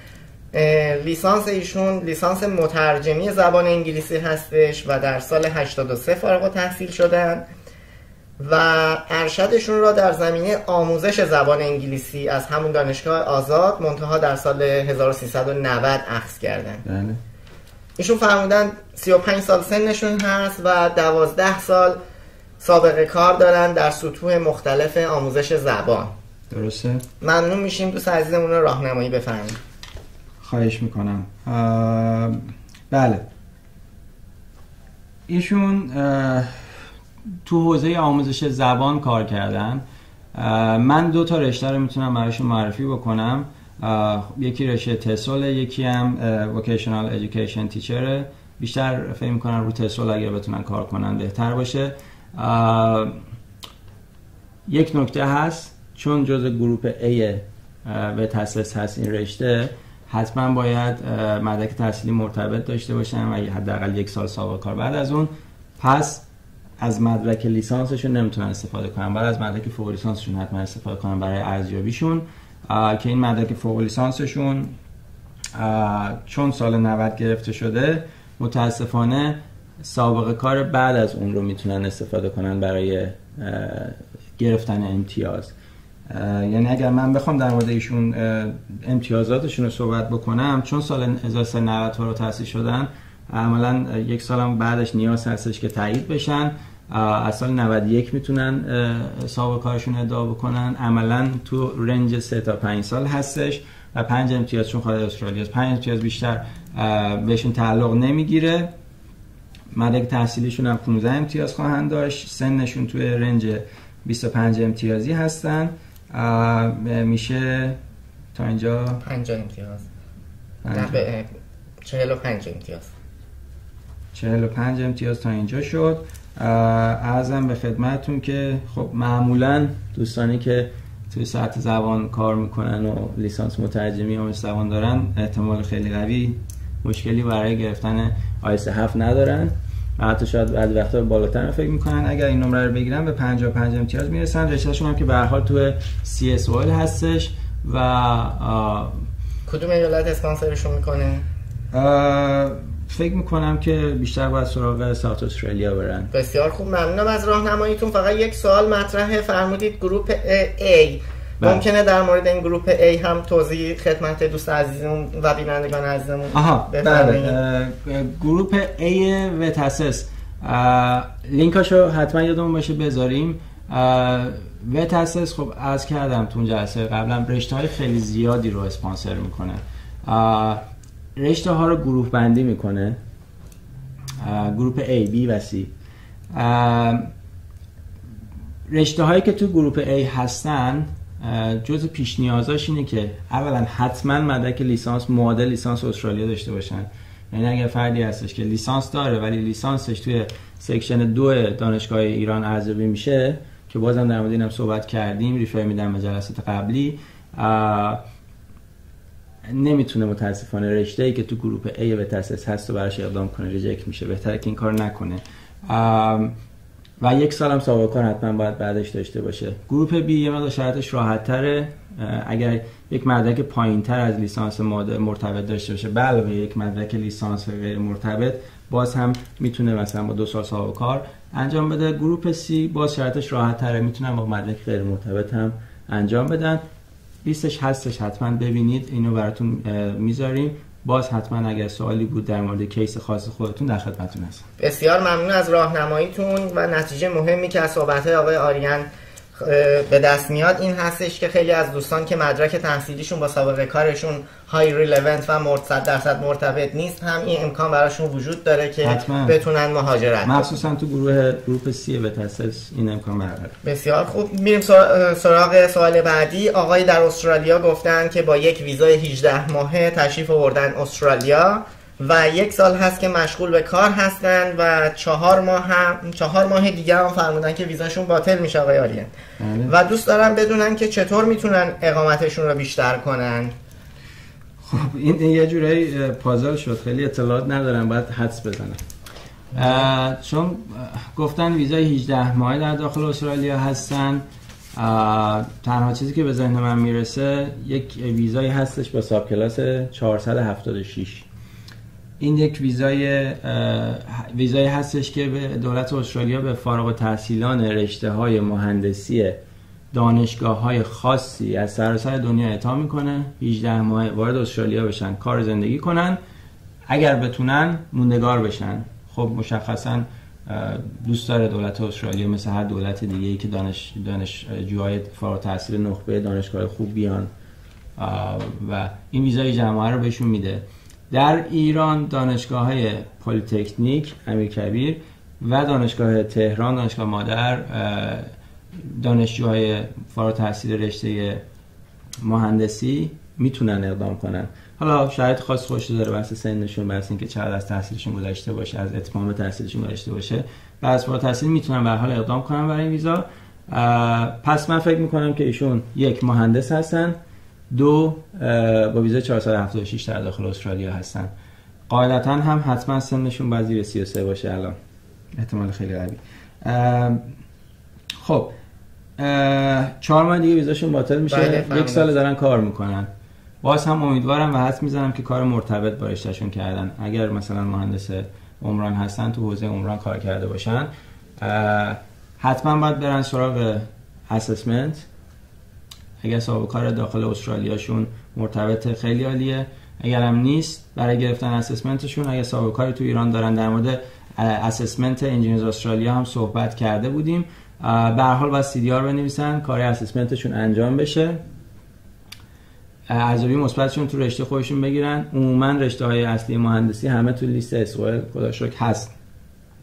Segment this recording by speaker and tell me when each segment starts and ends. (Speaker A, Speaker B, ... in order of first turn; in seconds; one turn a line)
Speaker A: 0.5-7.5
Speaker A: 8.4-16.8
Speaker B: 16.9-17.2
Speaker A: 18.0-22.0
Speaker A: 22.6-26.1
Speaker B: 26.5-27.0
Speaker A: 27.2-29.6
Speaker B: 30.4-33.2
Speaker B: 35.3-36.9
Speaker B: 37.5-39.8
Speaker B: 40.3-53.1
Speaker B: 54.7-66.2
Speaker B: 66.8-74.8
Speaker B: 75.5-85.5
Speaker B: 86.1-108.7
Speaker B: 109.7-117.8
Speaker B: 118.3-119.0
Speaker A: 119.0-119.9
Speaker B: 120.6-121.0
Speaker A: 120.7-121.3
Speaker A: 121.8-122.9
Speaker B: 124.1-149.0
Speaker A: 149.5-151.3
Speaker B: 151.7-156.1
Speaker A: 156.1-167.4
Speaker B: 166.3-180.6
Speaker B: 181.2-183.0
Speaker B: 184.2-185.7
Speaker B: 186.3-187.1
Speaker B: 188.7-208.0
Speaker B: 209.5-216.3
Speaker B: 217.0-236.6
Speaker B: 237.2-244.5
Speaker A: 244.6-260.5
Speaker B: 258.8-259.4
Speaker B: 260.2-263.6
Speaker A: 263.6-279.1
Speaker B: 279.4-279.7
Speaker A: 279.7-283.6
Speaker B: 284.6-288.8
Speaker B: 289.5-294.2
Speaker B: 294.7-301.3
Speaker B: 302.2-309.4
Speaker B: 309.9-316.2
Speaker B: 316.9-327.3
Speaker B: 328.0-341.4
Speaker B: 342.2-357.2
Speaker B: 357.7-361.3
Speaker B: 361.9-364.8
Speaker B: 365.4-367.2
Speaker B: 368.2-368.5
Speaker B: 369.2-373.1
Speaker A: 371.3-372.1
Speaker B: 373.6-380.9
Speaker B: 381.4-385.1
Speaker B: 386.2-401.4
Speaker B: 403.1-409.1